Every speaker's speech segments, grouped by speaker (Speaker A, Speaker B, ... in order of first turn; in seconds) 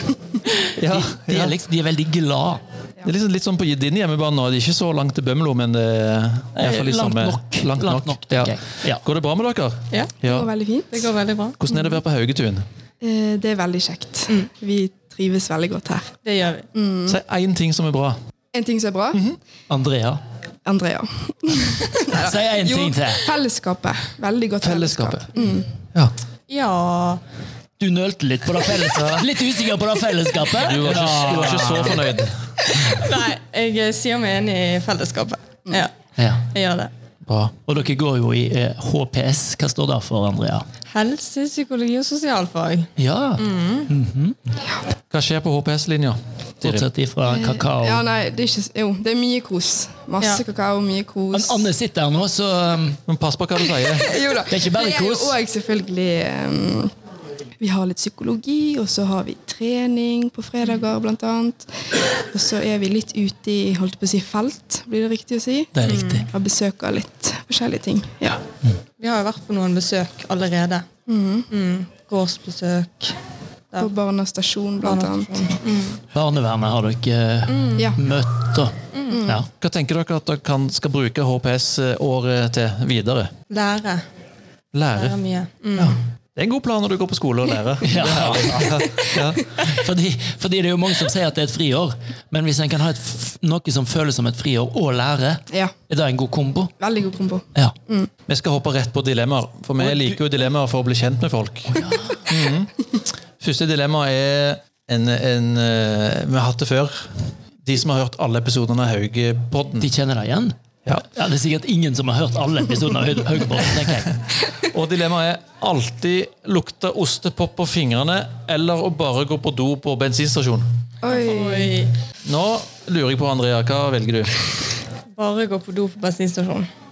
Speaker A: 0.7-2.6, 6.5-9.0, 19.7-20.2, 22.1-23.2, 27.8-32.1, 36.2-36.5, 37.6-40.6, 43.0-44.5, 46.6-48.0, 51.3-53.0, 54.5-55.4, 65.7-66.3, 76.0-79.5, 87.8-88.8, 89.6-96.7, 99.8-100.2, 101.8-102.2, 109.8-114.2
Speaker B: 0.8-1.6, 3.0-10.5, 11.6-12.6, 17.1-18.1, 24.6-25.4, 29.0-29.2, 30.6-32.5, 37.2-37.5, 45.1-46.9, 53.1-54.1, 79.6-83.3, 84.7-85.2, 85.8-89.4, 98.3-102.7, 103.4-109.9, 114.5-120.7, 122.2-124.5
Speaker C: 10.2-11.1, 13.0-16.1, 16.7-17.2, 18.5-19.2, 20.6-25.7, 47.2-51.7, 53.8-56.9, 57.6-61.7, 62.3-68.4, 71.1-71.5, 73.8-75.4, 79.1-79.4, 96.8-98.1, 121.0-121.7
Speaker D: 10.9-11.6, 16.2-16.6, 26.5-27.2, 32.7-36.9, 40.9-43.9, 65.8-66.2, 69.0-70.8, 71.5-73.1, 74.8-76.0, 77.5-77.9, 78.9-79.2, 83.5-84.0, 84.9-85.9, 121.1-121.9, 125.2-126.7